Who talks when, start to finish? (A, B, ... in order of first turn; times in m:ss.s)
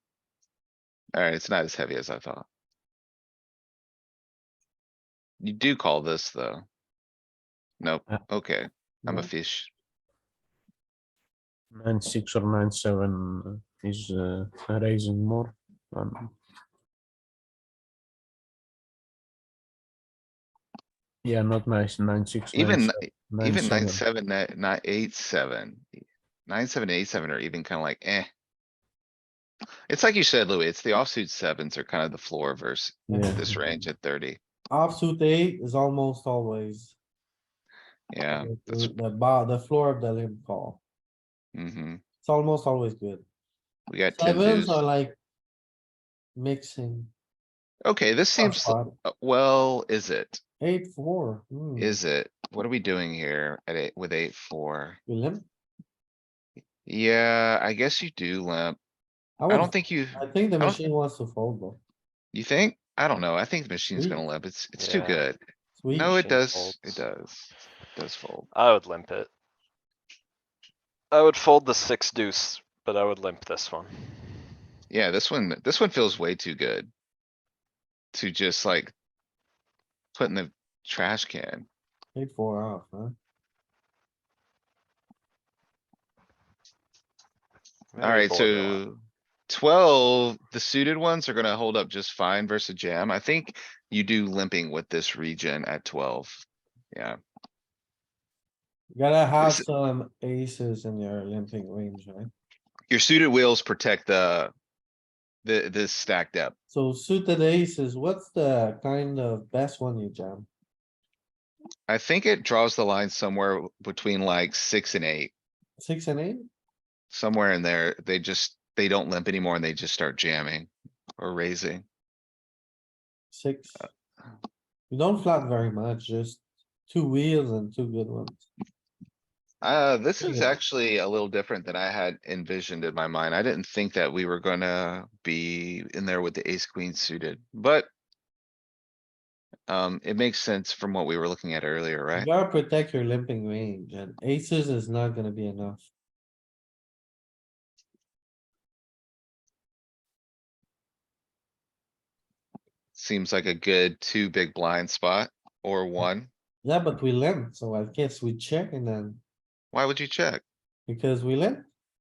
0:01.1-0:02.5 A
0:05.4-0:06.6 A
0:07.8-0:09.7 A
0:09.0-0:09.3 B
0:11.7-0:16.4 C
0:21.2-0:24.0 C
0:22.5-0:25.9 A
0:26.5-0:28.3 A
0:29.9-0:34.4 A
0:33.1-0:33.4 B
0:33.1-0:33.5 C
0:34.7-0:37.0 B
0:38.1-0:38.9 A
0:38.3-0:40.8 B
0:41.6-0:42.0 A
0:42.2-0:43.2 B
0:43.9-0:44.8 A
0:44.1-0:45.2 B
0:46.4-0:47.1 B
0:47.8-0:50.4 A
0:48.4-0:49.0 B
0:50.6-0:52.0 B
0:51.8-0:55.0 A
0:55.1-0:55.5 B
0:56.9-0:58.8 A
0:59.4-1:01.8 B
0:59.5-1:00.8 A
1:02.3-1:05.4 A
1:04.0-1:04.2 B
1:04.8-1:05.3 D
1:05.8-1:06.2 B
1:06.0-1:08.5 A
1:06.0-1:07.0 D
1:08.5-1:09.3 D
1:11.1-1:14.5 D
1:14.9-1:16.9 A
1:18.1-1:18.9 A
1:20.2-1:21.7 A
1:22.2-1:23.2 B
1:27.9-1:28.8 D
1:28.0-1:37.2 A
1:39.0-1:42.3 B
1:42.9-1:44.5 A
1:45.4-1:46.6 A
1:46.7-1:50.5 B
1:51.9-1:55.3 A
1:55.8-1:56.5 B
1:57.1-2:01.8 A
2:03.3-2:03.9 B
2:04.9-2:08.5 B
2:09.6-2:17.9 A
2:10.2-2:10.6 B
2:19.7-2:22.3 A
2:22.2-2:25.9 B
2:33.0-2:36.3 A
2:36.6-2:39.2 B
2:39.7-2:40.4 A
2:40.9-2:41.7 B